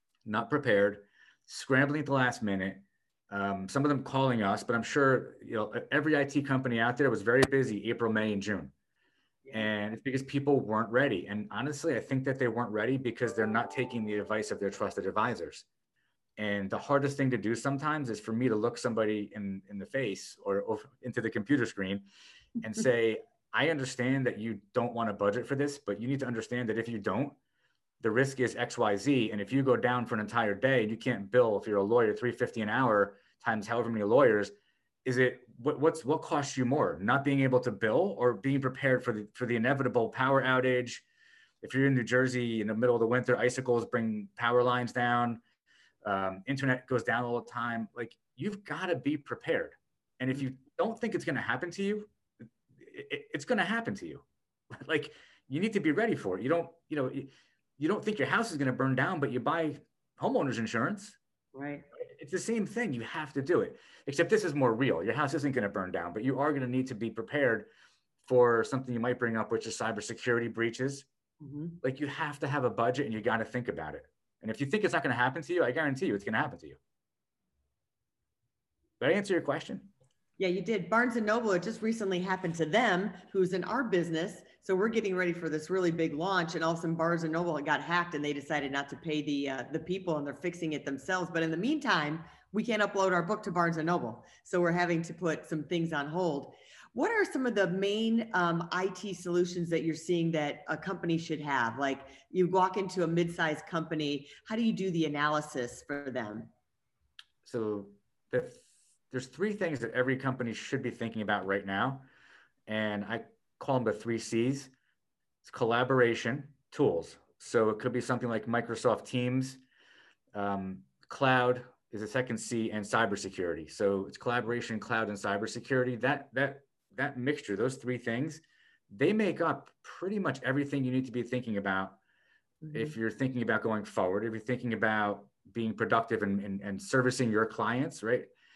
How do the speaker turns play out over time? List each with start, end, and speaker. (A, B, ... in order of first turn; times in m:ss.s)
0:00.2-0:08.7 A
0:09.5-0:15.6 A
0:16.4-0:22.0 A
0:22.6-0:27.4 A
0:28.0-0:34.5 A
0:35.0-0:41.0 A
0:41.6-0:45.4 A
0:46.0-0:52.1 A
0:52.8-1:01.2 A
1:01.5-1:01.8 B
1:01.9-1:07.7 A
1:08.2-1:11.1 A
1:11.4-1:11.8 B
1:11.8-1:16.8 A
1:19.0-1:19.9 A
1:20.4-1:46.5 B
1:47.4-1:52.0 A
1:52.7-1:54.7 A
1:55.4-1:59.6 A
2:00.3-2:12.0 A
2:12.6-2:12.9 B
2:12.7-2:18.3 A